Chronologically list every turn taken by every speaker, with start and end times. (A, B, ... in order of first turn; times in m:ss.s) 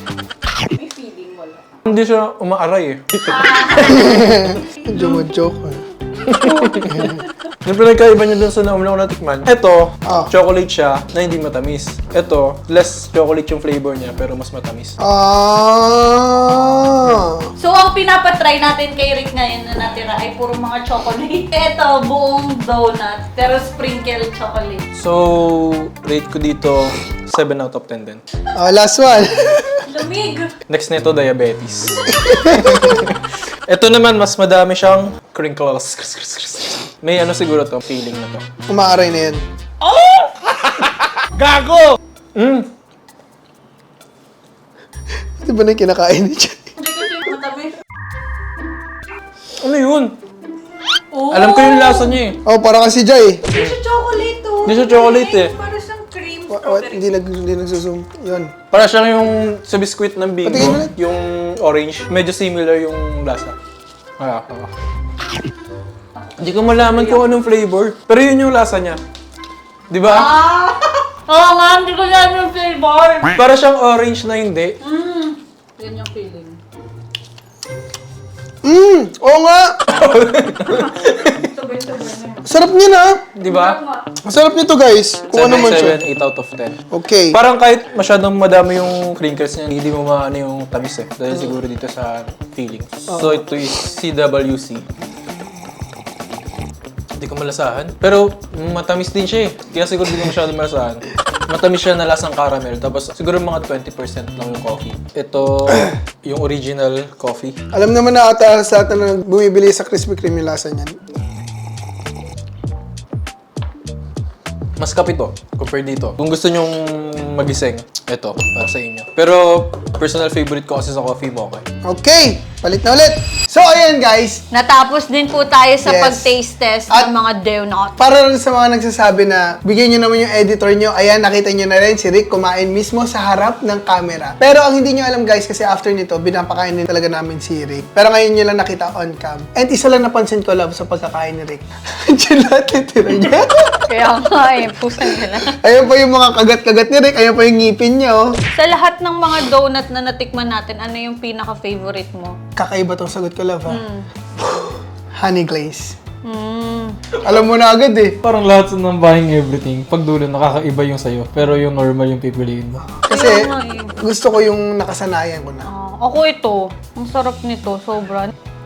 0:00.7-0:01.7 A
0:01.8-0:04.0 B
0:03.3-0:04.2 A
0:03.8-0:07.2 C
0:04.9-0:05.2 A
0:06.3-0:07.2 A
0:06.3-0:15.0 B
0:10.0-0:10.3 C
0:15.0-0:17.5 C
0:17.6-0:24.9 A
0:25.0-0:28.2 B
0:28.6-0:29.8 C
0:29.8-0:30.5 A
0:30.7-0:38.4 B
0:32.1-0:33.1 C
0:38.7-0:39.4 C
0:39.8-0:40.3 A
0:40.5-0:42.7 B
0:45.4-0:46.7 C
0:46.8-0:47.8 A
0:49.6-0:50.2 B
0:51.1-0:52.2 A
0:51.3-0:52.4 B
0:52.4-0:53.5 C
0:53.5-0:57.2 A
0:54.6-0:55.5 B
0:56.5-0:58.5 C
0:58.7-1:03.6 B
1:00.4-1:00.9 C
1:04.2-1:04.7 B
1:06.4-1:09.0 B
1:09.9-1:10.3 B
1:10.1-1:13.3 A
1:13.3-1:14.8 B
1:14.8-1:16.6 A
1:18.6-1:19.8 C
1:19.9-1:21.4 B
1:20.7-1:22.5 A
1:22.4-1:23.3 C
1:23.4-1:23.8 B
1:23.5-1:24.1 A
1:24.2-1:26.0 C
1:25.3-1:26.8 B
1:26.9-1:27.4 C
1:27.3-1:34.8 B
1:37.2-1:47.6 B
1:47.7-1:51.0 C
1:54.8-2:01.6 B
2:01.8-2:04.4 C
2:04.5-2:08.0 A
2:05.8-2:06.3 C
2:08.0-2:24.1 C
2:23.9-2:25.6 A
2:25.0-2:28.4 C
2:28.5-2:32.4 A
2:32.6-2:33.8 C
2:33.7-2:34.1 A
2:34.4-2:36.0 C
2:36.2-2:37.0 A
2:37.2-2:38.2 C
2:38.2-2:42.8 B
2:43.0-2:45.7 C
2:43.1-2:43.9 A
2:45.6-2:48.3 A